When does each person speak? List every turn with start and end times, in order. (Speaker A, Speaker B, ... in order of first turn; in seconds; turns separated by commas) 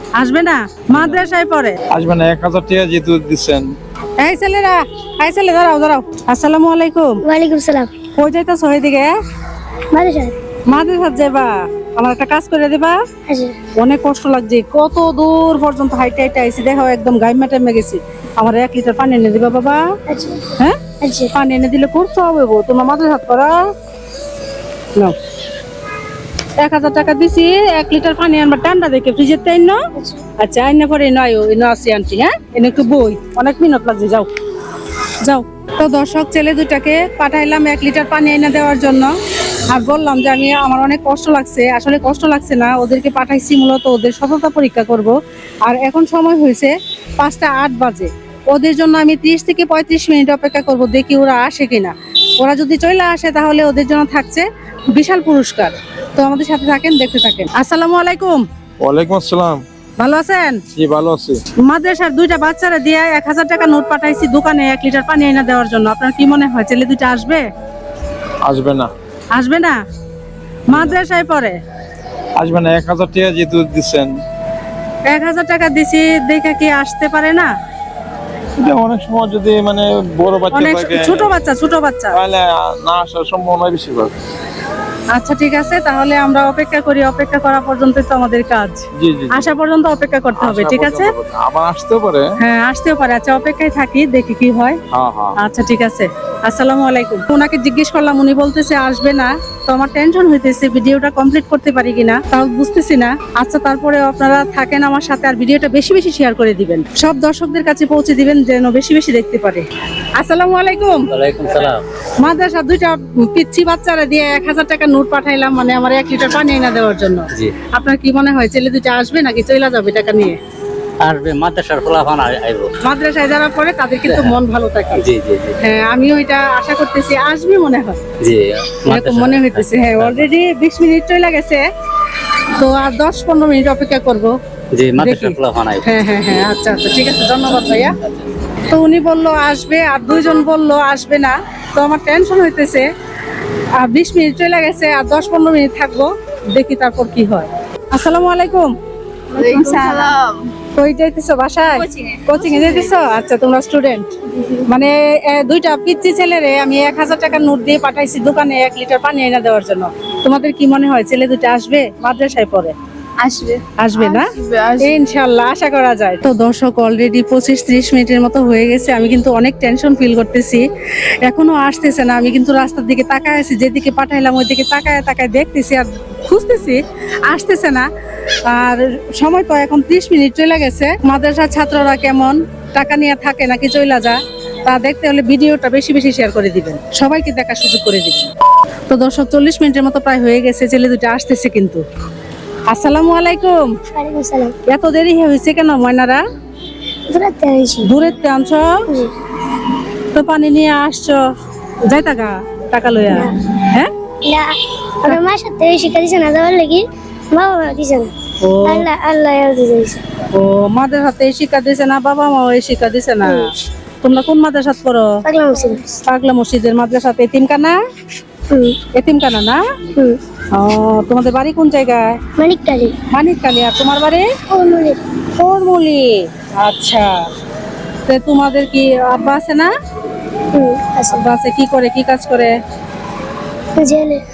Speaker A: 0.2-1.8, Speaker B: 1.9-3.7, Speaker A: 4.2-7.2, Speaker C: 7.2-7.9, Speaker A: 8.2-9.1, Speaker C: 9.9-10.3, Speaker A: 10.7-13.0, Speaker C: 13.3-13.6, Speaker A: 13.8-19.8, Speaker C: 20.1-21.3, Speaker A: 21.3-23.6, Speaker A: 26.6-29.8, Speaker C: 29.9-30.2, Speaker A: 30.4-34.3, Speaker A: 35.2-39.1, Speaker A: 39.7-58.4, Speaker B: 58.8-59.6, Speaker A: 60.0-60.6, Speaker B: 60.7-61.4, Speaker A: 61.6-67.4, Speaker B: 68.4-68.9, Speaker A: 69.3-69.8, Speaker A: 70.7-71.6, Speaker B: 70.7-71.0, Speaker B: 72.4-74.1, Speaker A: 75.1-77.5, Speaker B: 78.6-81.3, Speaker A: 80.5-82.2, Speaker B: 82.1-84.1, Speaker A: 85.1-91.1, Speaker B: 89.0-89.4, Speaker B: 90.3-92.2, Speaker A: 92.4-94.8, Speaker B: 94.9-95.4, Speaker A: 95.4-109.7, Speaker A: 110.2-111.0, Speaker D: 111.1-111.8, Speaker A: 112.2-120.4, Speaker D: 121.0-122.7, Speaker A: 122.8-125.0, Speaker D: 124.1-124.4, Speaker D: 125.0-125.5, Speaker A: 125.6-128.0, Speaker D: 128.2-130.3, Speaker A: 128.9-131.6, Speaker A: 132.5-134.3, Speaker D: 134.7-135.9, Speaker A: 135.0-138.0, Speaker A: 138.7-142.9, Speaker A: 143.8-148.7, Speaker E: 149.3-150.4, Speaker A: 149.4-150.1, Speaker A: 150.7-154.1, Speaker E: 151.9-152.7, Speaker A: 154.6-162.7, Speaker E: 163.2-164.9, Speaker A: 163.8-170.6, Speaker A: 171.2-177.9, Speaker A: 178.4-188.3, Speaker A: 188.9-191.8, Speaker A: 192.7-193.5, Speaker C: 193.9-194.6, Speaker A: 194.7-196.2, Speaker C: 197.1-197.9, Speaker A: 197.8-198.8, Speaker A: 200.1-201.2, Speaker A: 201.8-203.9, Speaker C: 204.2-210.1, Speaker A: 208.4-208.9, Speaker A: 210.3-213.5, Speaker A: 214.0-215.2, Speaker C: 215.2-215.9, Speaker A: 216.0-217.8, Speaker C: 218.5-218.8, Speaker A: 218.9-219.7, Speaker A: 220.5-222.2, Speaker C: 222.4-222.9, Speaker A: 223.1-224.3, Speaker C: 224.5-225.0, Speaker A: 225.3-227.2, Speaker A: 228.1-229.7, Speaker C: 230.5-231.2, Speaker A: 231.2-232.6, Speaker C: 233.8-234.2